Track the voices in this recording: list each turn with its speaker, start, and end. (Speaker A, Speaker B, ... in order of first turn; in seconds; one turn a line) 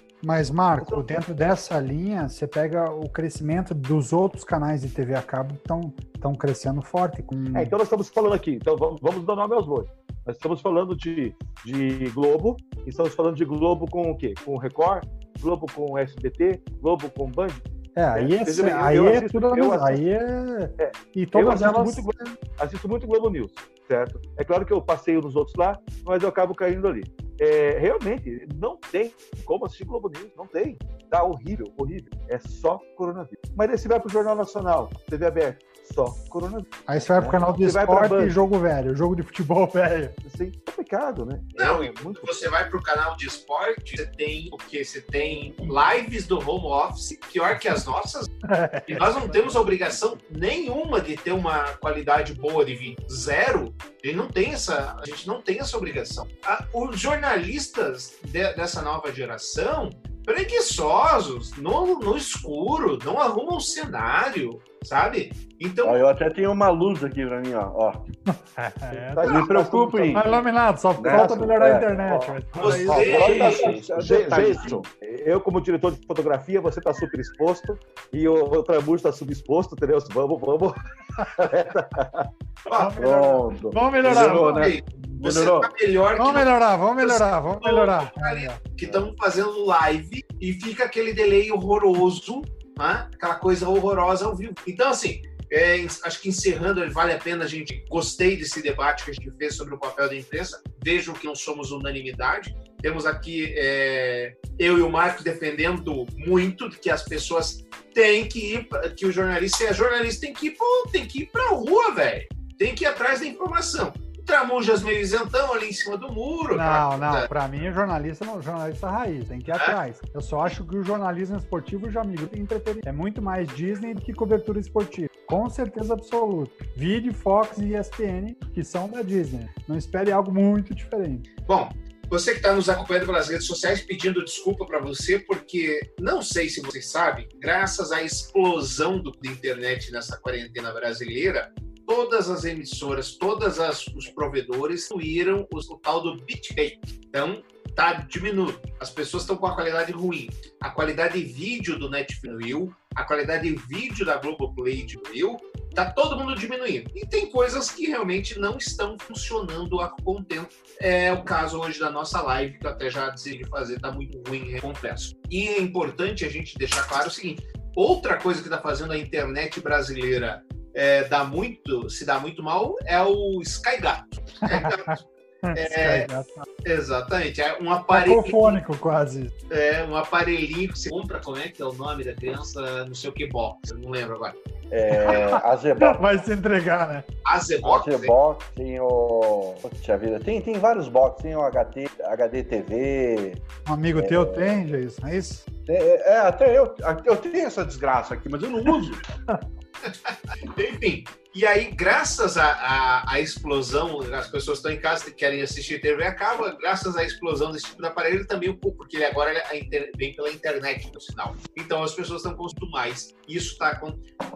Speaker A: 0.2-7.7
Speaker B: 0.8-1.2
Speaker B: 7.5-17.6
Speaker A: 18.0-22.3
Speaker B: 18.1-20.0
Speaker B: 20.8-38.5
Speaker A: 36.9-40.2
Speaker B: 40.2-42.5
Speaker C: 41.6-48.3
Speaker A: 48.5-49.3
Speaker C: 48.9-66.0
Speaker D: 65.8-68.1
Speaker A: 68.3-69.3
Speaker B: 68.9-70.4
Speaker D: 69.2-70.4
Speaker A: 70.1-73.5
Speaker D: 71.0-74.9
Speaker C: 72.6-73.8
Speaker B: 72.9-80.8
Speaker B: 81.4-82.3
Speaker A: 82.7-84.7
Speaker D: 83.0-85.7
Speaker C: 84.0-117.3
Speaker A: 86.2-88.6
Speaker A: 116.5-131.3
Speaker C: 131.5-175.0
Speaker A: 174.4-176.5
Speaker C: 175.6-176.1
Speaker C: 176.6-178.6
Speaker A: 177.9-179.3
Speaker C: 179.5-184.4
Speaker D: 184.7-186.0
Speaker A: 184.9-187.1
Speaker C: 187.2-188.1
Speaker D: 187.6-193.4
Speaker A: 193.7-195.5
Speaker D: 194.0-194.5
Speaker D: 195.7-199.0
Speaker C: 199.8-214.0